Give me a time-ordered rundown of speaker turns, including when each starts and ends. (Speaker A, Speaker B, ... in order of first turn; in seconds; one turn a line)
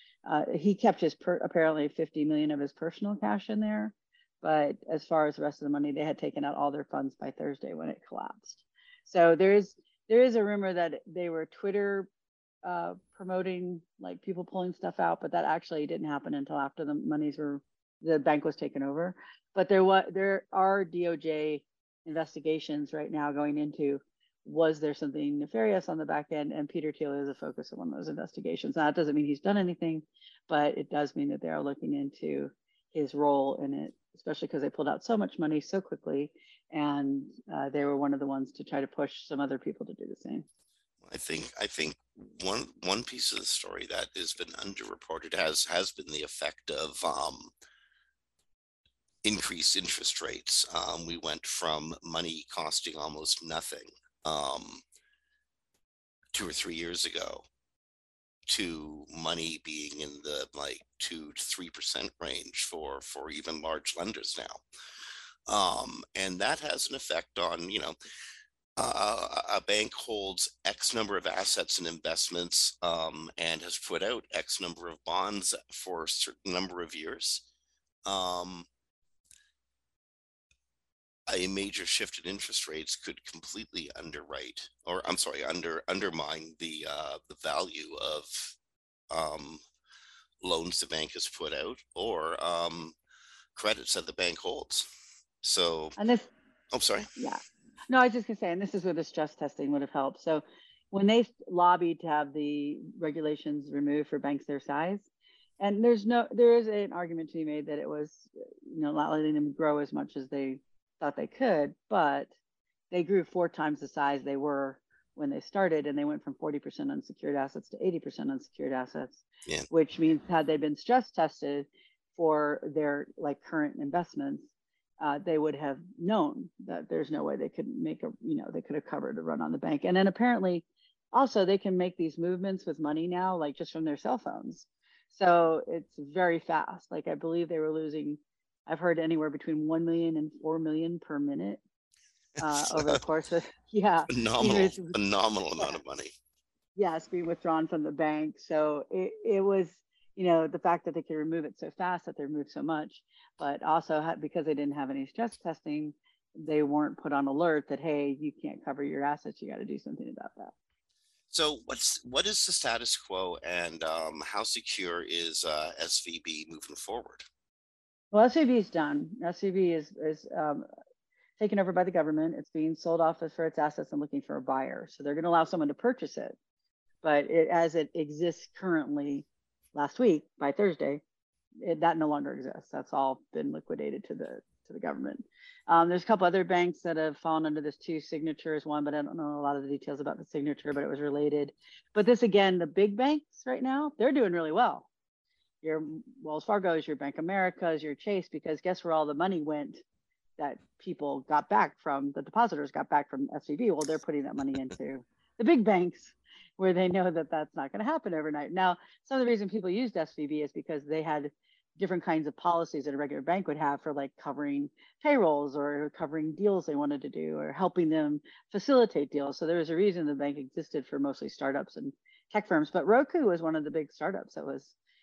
Speaker A: 0.3-12.1
Speaker A: 12.6-40.5
Speaker B: 41.0-47.5
Speaker B: 49.2-54.8
Speaker B: 56.3-57.5
Speaker B: 58.5-64.6
Speaker B: 65.5-68.0
Speaker B: 68.8-77.4
Speaker B: 78.1-78.7
Speaker B: 81.3-88.5
Speaker B: 89.1-89.6
Speaker B: 90.4-93.0
Speaker B: 93.5-94.9
Speaker B: 95.4-96.0
Speaker A: 96.0-96.3
Speaker B: 96.7-97.1
Speaker A: 97.2-105.1
Speaker A: 105.6-112.3
Speaker A: 112.9-119.2
Speaker A: 119.7-124.5
Speaker A: 125.0-141.6
Speaker A: 142.4-145.0
Speaker B: 142.5-143.0
Speaker B: 144.1-146.1
Speaker A: 146.8-160.5
Speaker B: 161.3-167.3
Speaker A: 168.1-170.7
Speaker A: 171.4-176.4
Speaker A: 177.0-181.0
Speaker A: 181.6-194.9
Speaker A: 195.6-199.8
Speaker A: 200.4-224.7